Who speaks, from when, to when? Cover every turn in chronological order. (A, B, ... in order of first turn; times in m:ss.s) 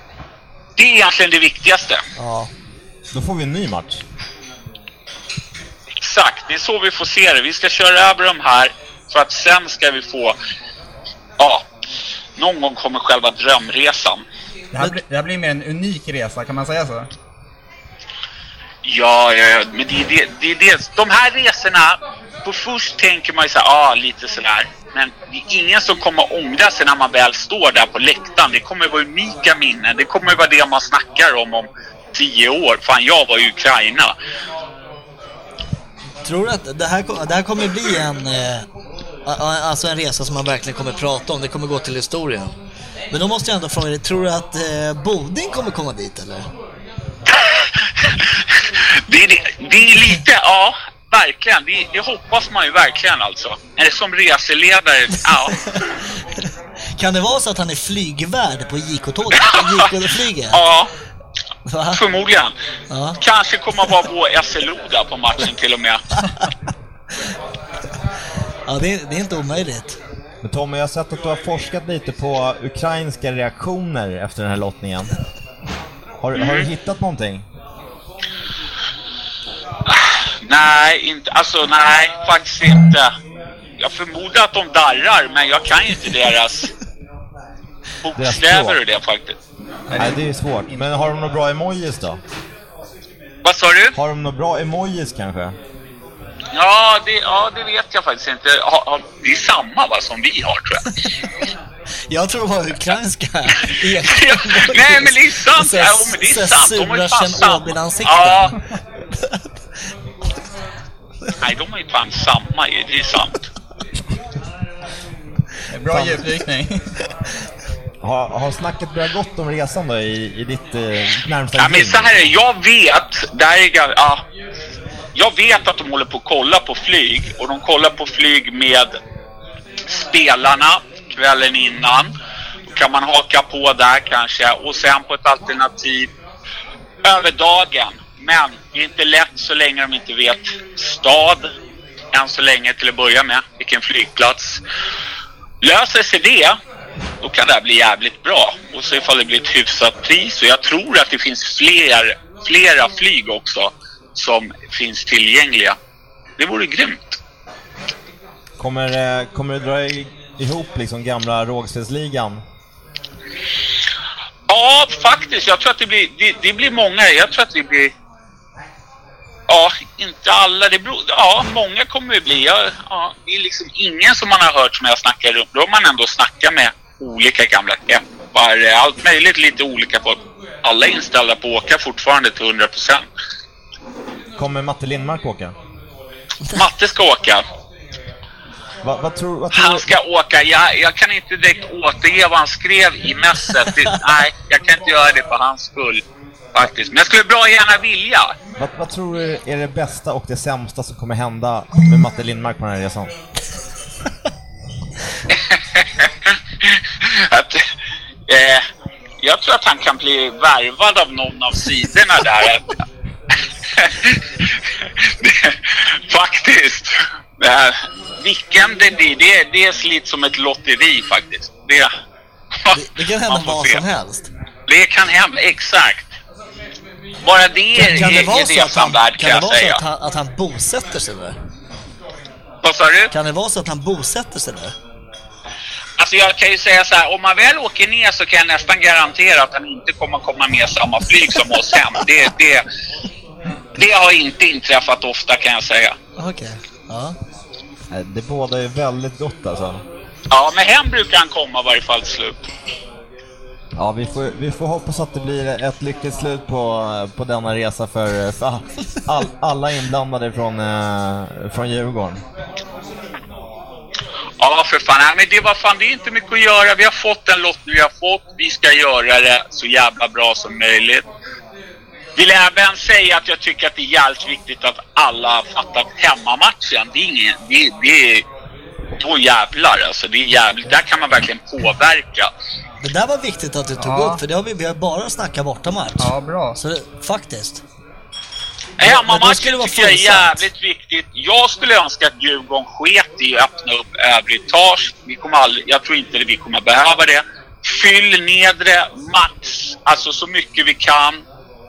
0:00.8-0:02.0 A
0:02.2-0:02.5 B
0:03.1-0:04.0 C
0:06.0-0:10.4 A
0:11.4-0:11.6 A
0:12.4-0:14.2 A
0:14.7-0:17.1 D
0:18.8-0:34.1 A
0:36.2-0:38.7 B
0:39.3-0:42.5 B
0:43.1-0:46.5 B
0:47.4-0:48.2 A
0:49.1-0:55.6 A
0:57.0-1:00.6 B
0:59.4-0:59.9 A
1:00.5-1:00.9 A
1:01.7-1:02.0 B
1:01.9-1:02.5 A
1:02.9-1:03.2 B
1:03.2-1:06.0 A
1:08.7-1:10.0 B
1:10.4-1:15.1 C
1:16.2-1:17.4 C
1:16.4-1:16.7 A
1:19.9-1:23.1 A
1:23.8-1:26.7 A
1:28.0-1:29.4 A
1:28.2-1:28.8 C
1:29.9-1:30.9 D
1:30.0-1:32.2 C
1:33.4-1:34.0 A
1:33.9-1:35.6 C
1:36.6-1:40.8 A
1:42.1-1:48.6 B
1:44.0-1:48.5 A
1:51.4-1:53.4 A
1:55.7-1:56.7 D
1:55.9-1:56.2 C
1:58.0-2:02.3 C
2:01.6-2:04.2 A
2:05.2-2:08.9 A
2:09.9-2:12.1 A
2:12.7-2:16.1 A
2:17.0-2:21.5 A
2:22.1-2:24.6 A
2:25.6-2:26.6 A
2:27.2-2:35.8 A
2:36.4-2:37.2 A
2:38.6-2:42.4 C
2:44.5-2:47.9 A
2:49.5-3:03.0 A
3:04.4-3:05.5 C
3:06.6-3:07.4 A
3:08.8-3:09.9 C
3:09.5-3:16.0 A
3:16.6-3:18.3 A
3:18.6-3:23.1 C
3:25.6-3:26.1 A
3:26.6-3:27.6 A
3:28.3-3:28.6 A
3:29.2-3:32.6 A
3:33.8-3:34.2 A
3:35.2-3:41.9 A
3:42.7-3:43.8 A
3:42.7-3:44.3 B
3:44.7-3:46.1 A
3:47.2-3:49.8 A
3:47.8-3:51.4 B
3:52.6-3:53.1 A
3:53.1-3:54.7 B
3:56.0-4:02.6 A
4:03.8-4:06.0 A
4:06.2-4:07.2 B
4:07.9-4:09.8 C
4:10.3-4:12.4 A
4:13.8-4:22.2 C
4:24.4-4:31.0 A
4:32.2-4:38.2 A
4:39.0-4:42.3 A
4:42.8-4:47.6 B
4:43.8-4:44.2 D
4:46.0-4:46.6 D
4:48.8-5:01.2 A
4:48.8-4:50.5 B